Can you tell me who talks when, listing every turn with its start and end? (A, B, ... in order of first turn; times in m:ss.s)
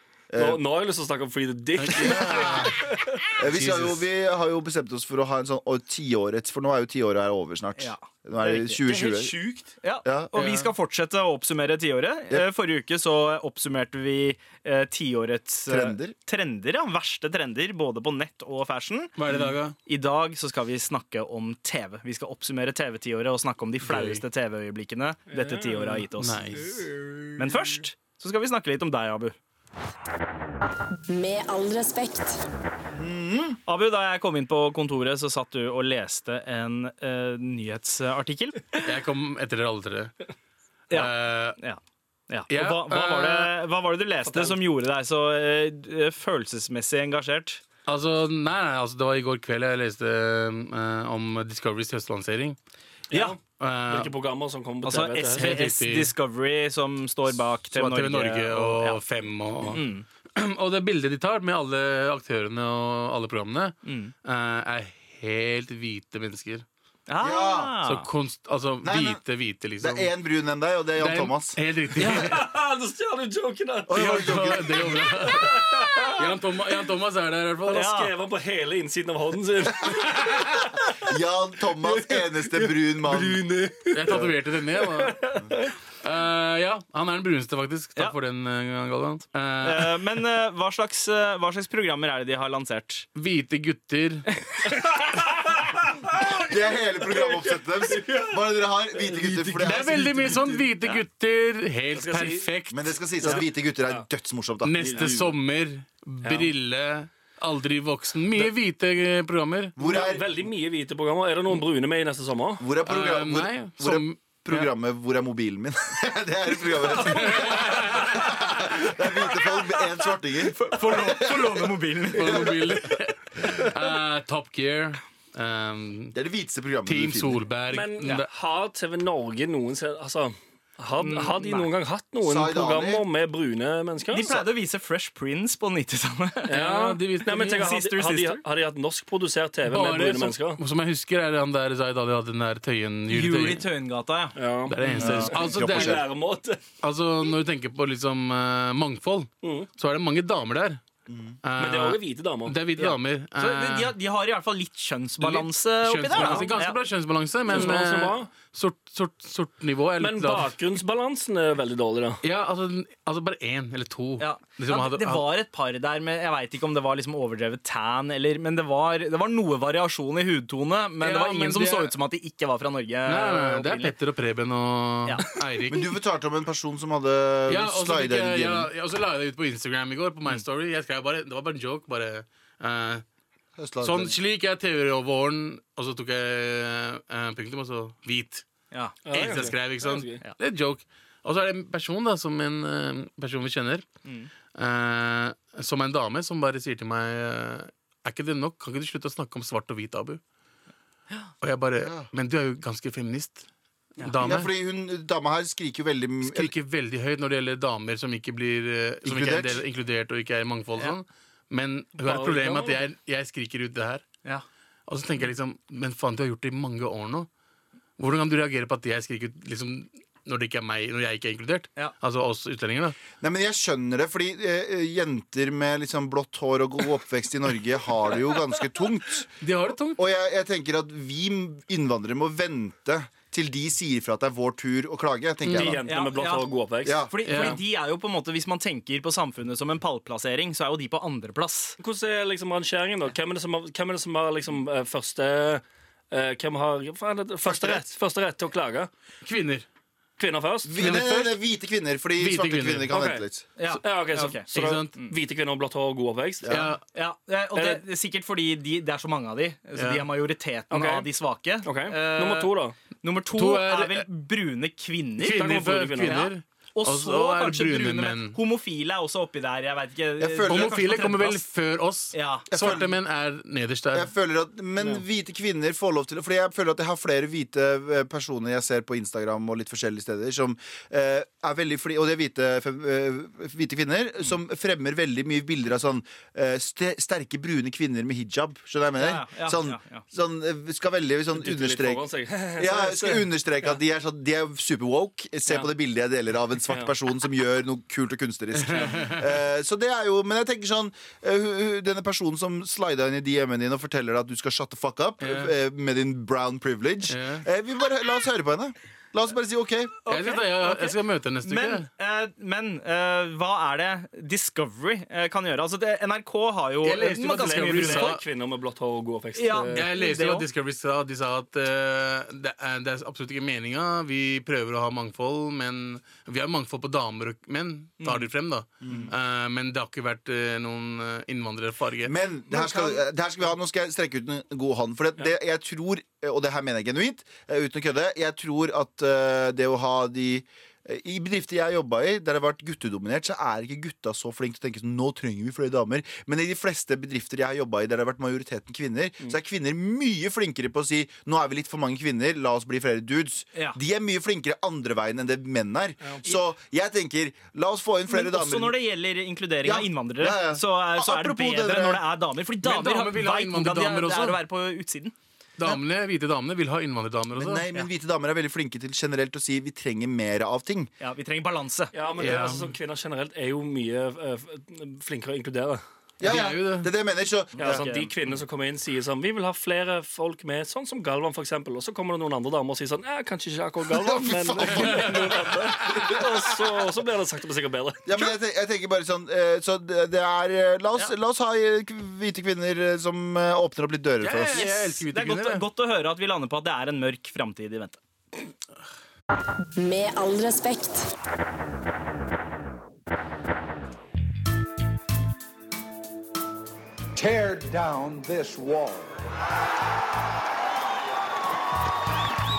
0:00.3-0:00.6 A
0:00.4-0:03.2 B
0:01.8-0:02.8 C
0:01.9-0:02.7 A
0:03.4-0:09.4 A
0:03.5-0:04.0 C
0:07.8-0:19.2 D
0:10.0-0:10.3 A
0:10.3-0:10.7 C
0:15.7-0:16.2 A
0:19.2-0:19.8 C
0:19.9-0:26.6 D
0:23.8-0:24.2 C
0:25.3-0:26.0 B
0:26.1-0:27.0 C
0:27.0-0:27.3 B
0:27.4-0:29.4 D
0:31.1-0:32.4 E
0:33.0-0:33.6 A
0:33.7-0:38.9 D
0:38.8-0:40.1 C
0:40.9-0:41.8 D
0:40.9-0:41.6 C
0:42.3-0:47.6 D
0:42.5-0:43.5 C
0:44.3-0:44.6 B
0:47.9-0:52.6 C
0:53.1-0:55.6 B
0:53.5-0:54.1 C
0:54.8-0:59.0 D
0:55.2-0:56.1 C
0:57.7-0:59.8 C
0:59.6-1:00.0 D
1:00.4-1:06.7 C
1:03.8-1:04.1 D
1:07.1-1:08.1 D
1:07.2-1:07.8 A
1:07.8-1:10.1 C
1:08.8-1:09.2 A
1:09.8-1:11.6 A
1:11.0-1:12.5 C
1:12.0-1:12.4 D
1:12.1-1:16.2 B
1:13.9-1:15.1 A
1:13.9-1:17.9 C
1:17.7-1:18.1 D
1:17.7-1:20.5 B
1:21.0-1:23.4 A
1:21.8-1:24.2 F
1:23.9-1:25.3 C
1:25.0-1:25.7 B
1:26.0-1:30.0 C
1:29.6-1:33.1 D
1:33.2-1:34.2 C
1:34.5-1:34.9 D
1:35.3-1:35.6 B
1:36.4-1:40.1 A
1:37.9-1:38.4 B
1:39.2-1:40.6 F
1:39.6-1:42.8 C
1:41.9-1:42.5 B
1:42.7-1:45.1 A
1:43.2-1:44.0 B
1:44.6-1:49.7 C
1:44.8-1:45.4 B
1:46.2-1:46.5 B
1:49.8-1:50.3 A
1:49.8-1:52.6 B
1:52.6-2:03.0 A
1:52.9-1:54.7 C
1:57.0-1:58.2 C
2:00.4-2:02.7 D
2:02.2-2:06.2 C
2:06.1-2:07.4 A
2:06.9-2:08.3 C
2:07.7-2:14.4 B
2:11.0-2:11.7 D
2:12.2-2:13.0 A
2:14.1-2:16.5 D
2:16.5-2:20.6 B
2:16.5-2:17.6 C
2:17.3-2:18.4 D
2:19.6-2:23.7 C
2:23.1-2:24.4 D
2:24.4-2:26.6 B
2:24.7-2:26.1 C
2:25.0-2:26.0 A
2:26.8-2:30.8 C
2:29.4-2:29.7 B
2:31.1-2:31.4 A
2:31.4-2:33.9 C
2:31.6-2:32.6 B
2:32.8-2:36.8 D
2:35.2-2:40.6 C
2:36.1-2:36.5 B
2:37.5-2:38.3 B
2:40.0-2:42.2 B
2:42.2-2:45.2 C
2:44.2-2:54.0 D
2:51.0-2:51.9 C
2:53.1-2:55.9 C
2:55.7-2:58.7 A
2:57.5-3:03.0 C
3:03.6-3:04.2 A
3:03.8-3:08.4 C
3:08.7-3:09.0 D
3:09.1-3:10.2 B
3:09.1-3:13.8 C
3:14.0-3:14.3 D
3:14.5-3:20.2 C
3:21.4-3:23.4 C
3:21.8-3:22.1 A
3:24.0-3:24.5 C
3:24.2-3:26.5 A
3:26.2-3:34.0 C
3:29.0-3:29.6 A
3:32.0-3:32.8 B
3:34.9-3:37.3 C
3:38.0-3:43.0 C
3:43.2-3:49.3 A
3:49.4-3:50.0 C
3:50.0-3:55.8 A
3:55.5-3:55.8 C
3:55.5-3:57.6 B
3:55.9-3:56.5 D
3:56.8-3:57.1 A
3:57.1-4:01.8 D
3:57.2-3:57.6 C
4:01.8-4:08.9 B
4:07.5-4:07.8 D
4:09.2-4:09.7 C
4:10.2-4:10.9 B
4:10.7-4:13.4 A
4:10.8-4:11.4 C
4:12.2-4:12.9 C
4:12.9-4:13.2 B
4:13.6-4:15.1 D
4:13.8-4:16.6 B
4:14.5-4:14.9 C
4:16.4-4:16.7 A
4:16.5-4:16.8 C
4:16.9-4:31.4 D
4:17.6-4:17.8 B
4:19.8-4:20.1 C
4:20.7-4:21.1 B
4:21.6-4:22.8 B
4:23.4-4:24.1 C
4:25.2-4:28.4 C
4:25.3-4:26.3 B
4:30.2-4:30.8 A
4:30.5-4:34.1 C
4:32.1-4:32.5 D
4:32.5-4:32.9 A
4:33.9-4:52.0 A
4:49.0-4:50.0 D
4:51.3-4:53.7 B
4:52.6-5:10.0 A
4:58.6-4:59.3 C
5:05.2-5:05.5 C
5:07.1-5:07.4 C
5:10.1-5:18.2 D
5:10.1-5:11.9 C
5:16.8-5:18.2 C
5:17.2-5:19.9 B
5:19.4-5:20.5 D
5:19.7-5:32.1 C
5:28.0-5:28.3 D
5:28.8-5:29.1 A
5:32.0-5:58.8 A
5:32.5-5:33.0 D
5:58.1-6:05.1 D
5:59.6-6:02.0 A
6:02.6-6:04.4 C
6:05.6-6:07.6 C
6:07.4-6:10.9 A
6:11.0-6:11.9 D
6:11.9-6:15.8 B
6:12.2-6:12.7 C
6:16.2-6:17.8 A
6:16.2-6:16.9 C
6:17.6-6:18.1 D
6:17.6-6:28.1 B
6:23.9-6:26.3 A
6:24.7-6:25.3 C
6:28.0-6:34.7 A
6:34.2-6:35.7 C
6:34.5-6:38.0 D
6:39.8-6:41.1 E
6:47.2-6:48.9 F